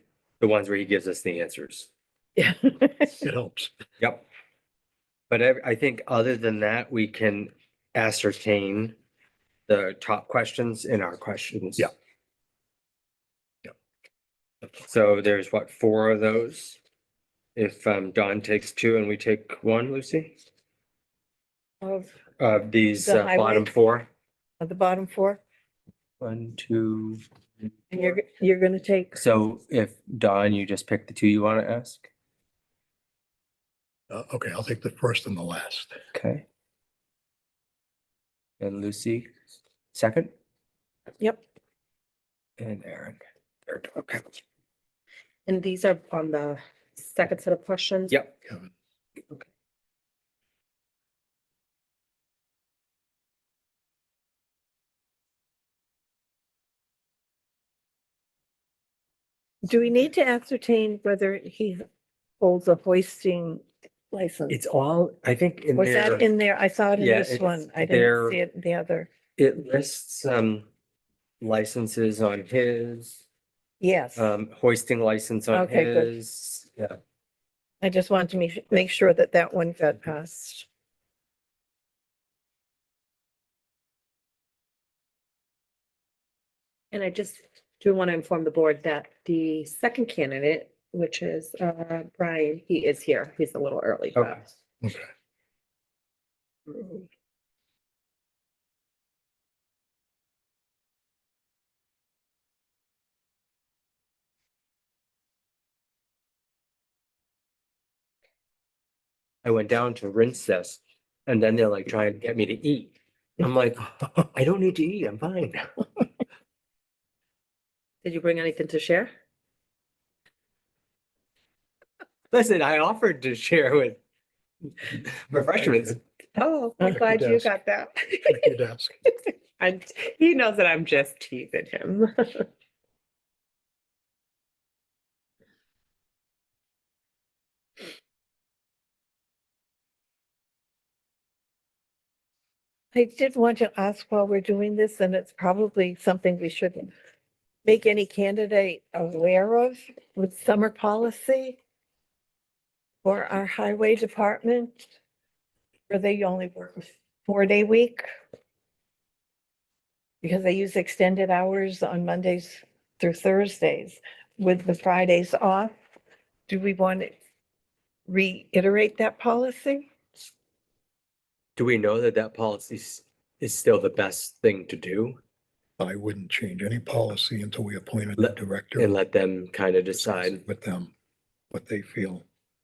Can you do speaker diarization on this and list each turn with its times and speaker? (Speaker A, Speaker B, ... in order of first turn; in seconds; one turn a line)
Speaker A: 0.4-1.9
Speaker B: 2.4-3.2
Speaker C: 3.2-3.7
Speaker A: 4.0-4.3
Speaker A: 5.3-8.9
Speaker A: 9.7-11.9
Speaker A: 14.6-16.8
Speaker A: 17.6-20.4
Speaker B: 21.8-22.2
Speaker A: 22.4-24.1
Speaker B: 23.0-23.7
Speaker B: 24.6-25.4
Speaker A: 26.2-27.2
Speaker B: 27.9-29.2
Speaker A: 29.1-32.1
Speaker C: 34.1-36.0
Speaker A: 36.1-36.5
Speaker A: 38.6-39.3
Speaker A: 39.9-40.3
Speaker A: 42.6-44.3
Speaker D: 45.5-48.1
Speaker B: 59.6-61.8
Speaker B: 62.4-64.6
Speaker A: 64.5-66.2
Speaker B: 65.8-69.1
Speaker A: 67.0-68.4
Speaker A: 69.4-70.7
Speaker A: 71.4-73.2
Speaker B: 73.8-74.3
Speaker A: 74.2-77.0
Speaker B: 75.5-76.1
Speaker B: 77.8-80.7
Speaker D: 86.9-94.5
Speaker C: 94.8-95.1
Speaker A: 109.4-115.7
Speaker D: 118.0-119.1
Speaker A: 122.3-124.0
Speaker A: 124.8-126.0
Speaker D: 126.4-128.1
Speaker B: 126.8-127.5
Speaker C: 126.8-127.5
Speaker C: 128.2-129.0
Speaker D: 129.6-132.4
Speaker B: 142.9-146.9
Speaker B: 147.7-151.6
Speaker B: 153.0-154.9
Speaker B: 155.9-158.1
Speaker B: 160.2-165.7
Speaker B: 166.5-167.1
Speaker B: 168.1-169.9
Speaker A: 171.6-175.2
Speaker C: 175.8-178.9
Speaker A: 178.2-180.4
Speaker C: 180.0-180.9
Speaker C: 181.5-182.2